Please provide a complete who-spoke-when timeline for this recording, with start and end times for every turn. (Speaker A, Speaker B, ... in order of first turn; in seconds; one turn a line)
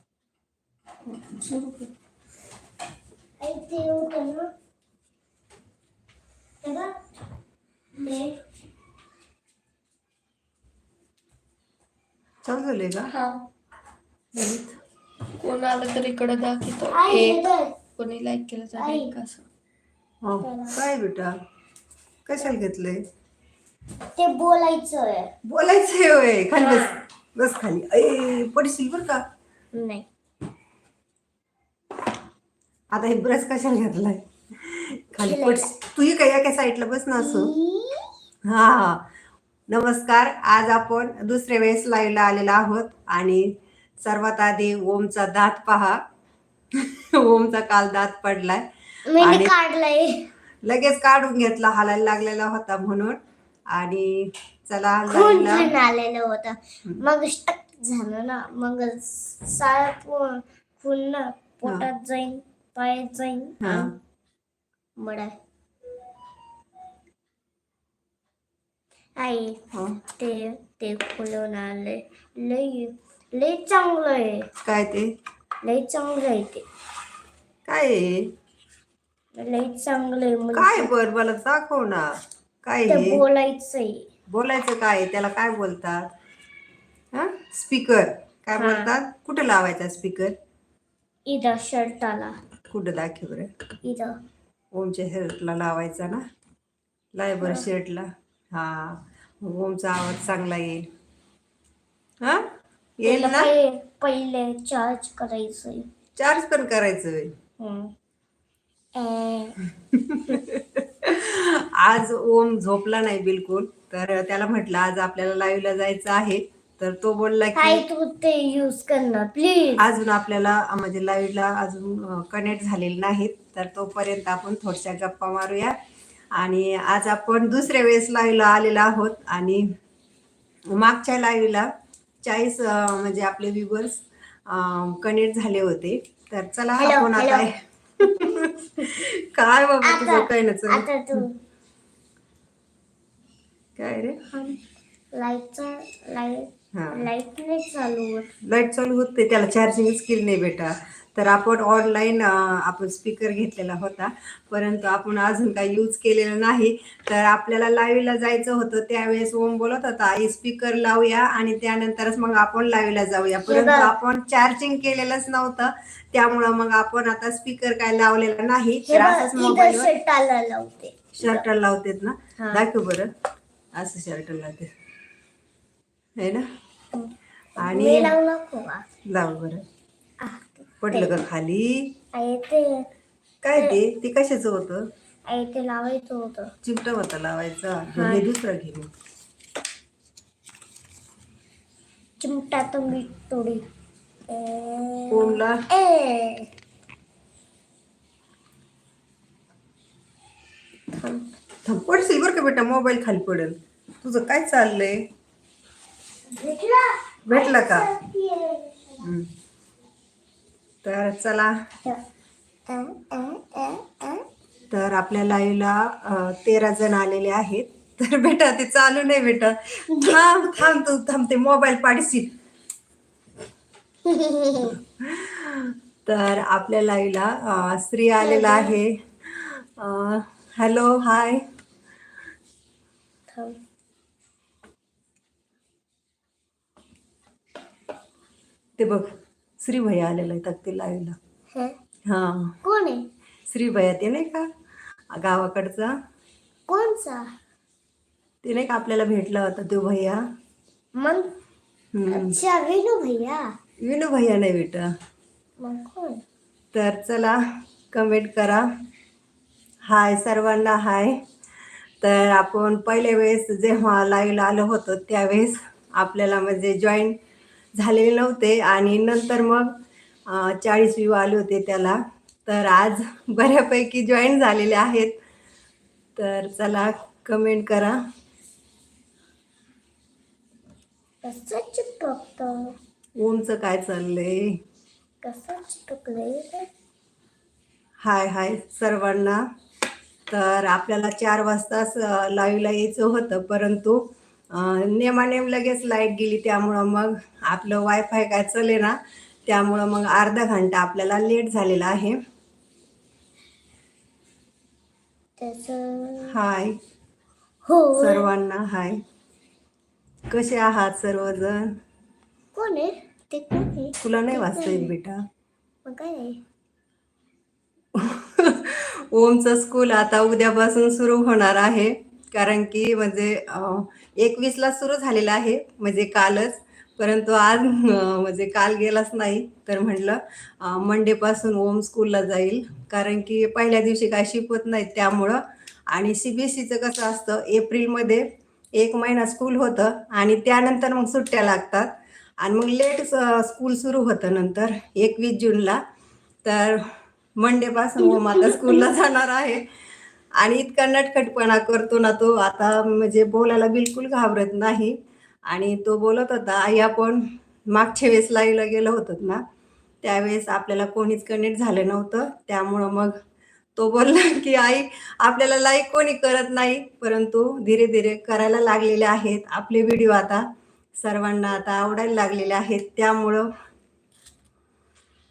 Speaker A: 1.2-1.8
Speaker B: 3.4-4.5
Speaker B: 6.6-7.0
Speaker B: 8.0-8.4
Speaker C: 12.4-13.1
Speaker B: 13.1-13.4
Speaker C: 14.3-14.8
Speaker A: 15.4-19.4
Speaker B: 16.9-17.8
Speaker B: 18.8-19.1
Speaker C: 20.2-21.4
Speaker B: 20.4-20.8
Speaker C: 22.3-23.1
Speaker B: 24.1-25.3
Speaker C: 25.4-29.2
Speaker B: 26.6-27.1
Speaker B: 29.7-30.1
Speaker C: 32.9-37.5
Speaker B: 35.2-35.7
Speaker B: 37.2-38.1
Speaker C: 38.5-39.0
Speaker C: 39.7-46.0
Speaker C: 46.7-48.7
Speaker B: 49.1-50.3
Speaker C: 49.2-49.5
Speaker C: 50.6-53.2
Speaker C: 53.7-55.8
Speaker B: 55.1-63.9
Speaker C: 63.6-64.0
Speaker B: 65.0-65.3
Speaker B: 69.2-74.5
Speaker C: 69.7-70.0
Speaker C: 74.6-75.1
Speaker B: 75.6-76.6
Speaker C: 77.7-78.3
Speaker B: 79.3-80.9
Speaker C: 80.5-83.2
Speaker B: 82.9-84.1
Speaker C: 84.3-86.1
Speaker C: 87.1-90.4
Speaker B: 88.6-88.9
Speaker B: 91.3-92.4
Speaker C: 92.7-93.5
Speaker B: 93.8-94.2
Speaker C: 94.7-96.2
Speaker C: 97.1-100.9
Speaker C: 102.2-102.5
Speaker C: 103.0-103.5
Speaker B: 103.0-105.9
Speaker C: 106.2-107.3
Speaker B: 107.6-107.9
Speaker B: 109.0-109.6
Speaker C: 109.9-117.8
Speaker B: 117.5-119.8
Speaker C: 119.8-125.8
Speaker C: 126.3-129.7
Speaker C: 130.7-131.7
Speaker C: 132.2-141.2
Speaker B: 136.8-137.5
Speaker B: 138.0-138.9
Speaker B: 139.8-141.3
Speaker C: 143.8-144.2
Speaker B: 144.3-144.6
Speaker B: 145.1-148.3
Speaker C: 146.7-147.1
Speaker C: 148.4-169.9
Speaker B: 163.5-163.9
Speaker B: 168.9-171.4
Speaker C: 171.2-173.1
Speaker B: 172.4-172.7
Speaker C: 173.8-174.7
Speaker C: 176.2-176.5
Speaker B: 176.9-178.8
Speaker C: 177.6-178.2
Speaker C: 179.1-179.6
Speaker B: 180.2-181.2
Speaker C: 180.8-182.0
Speaker B: 182.1-182.9
Speaker C: 183.4-184.9
Speaker B: 185.3-186.5
Speaker C: 186.6-188.9
Speaker B: 187.9-188.3
Speaker B: 192.2-193.6
Speaker B: 194.3-196.5
Speaker C: 195.1-195.6
Speaker B: 200.9-201.3
Speaker C: 201.7-205.1
Speaker B: 206.3-209.1
Speaker C: 207.3-207.9
Speaker C: 209.0-209.3
Speaker C: 210.8-211.6
Speaker B: 212.7-214.2
Speaker C: 214.7-222.3
Speaker B: 219.9-220.6
Speaker B: 224.1-224.8
Speaker C: 224.7-231.5
Speaker B: 228.2-228.8
Speaker B: 233.3-233.6
Speaker C: 238.8-241.2
Speaker C: 242.1-242.6
Speaker B: 242.6-243.1
Speaker C: 243.5-244.5
Speaker C: 245.1-245.9
Speaker B: 246.7-247.3
Speaker C: 248.4-250.2
Speaker B: 251.0-251.3
Speaker C: 251.9-252.4
Speaker B: 252.1-253.5
Speaker C: 253.8-254.9
Speaker B: 255.6-256.2
Speaker C: 256.7-257.4
Speaker C: 257.9-258.6
Speaker C: 259.9-261.2
Speaker C: 262.0-267.2
Speaker C: 267.8-275.2
Speaker C: 276.2-278.0
Speaker B: 281.2-282.8
Speaker C: 283.2-284.6
Speaker B: 285.2-286.7
Speaker C: 288.0-289.4
Speaker C: 290.3-302.2
Speaker B: 305.4-306.4
Speaker C: 306.3-306.8
Speaker B: 307.6-308.3
Speaker C: 308.0-309.0
Speaker C: 310.3-311.8
Speaker B: 312.5-314.9
Speaker C: 314.0-315.2
Speaker B: 315.9-316.4
Speaker C: 317.9-345.8
Speaker C: 346.4-349.7
Speaker B: 348.0-348.9
Speaker C: 350.4-355.0
Speaker C: 355.5-359.4
Speaker C: 360.0-363.2
Speaker C: 363.8-373.5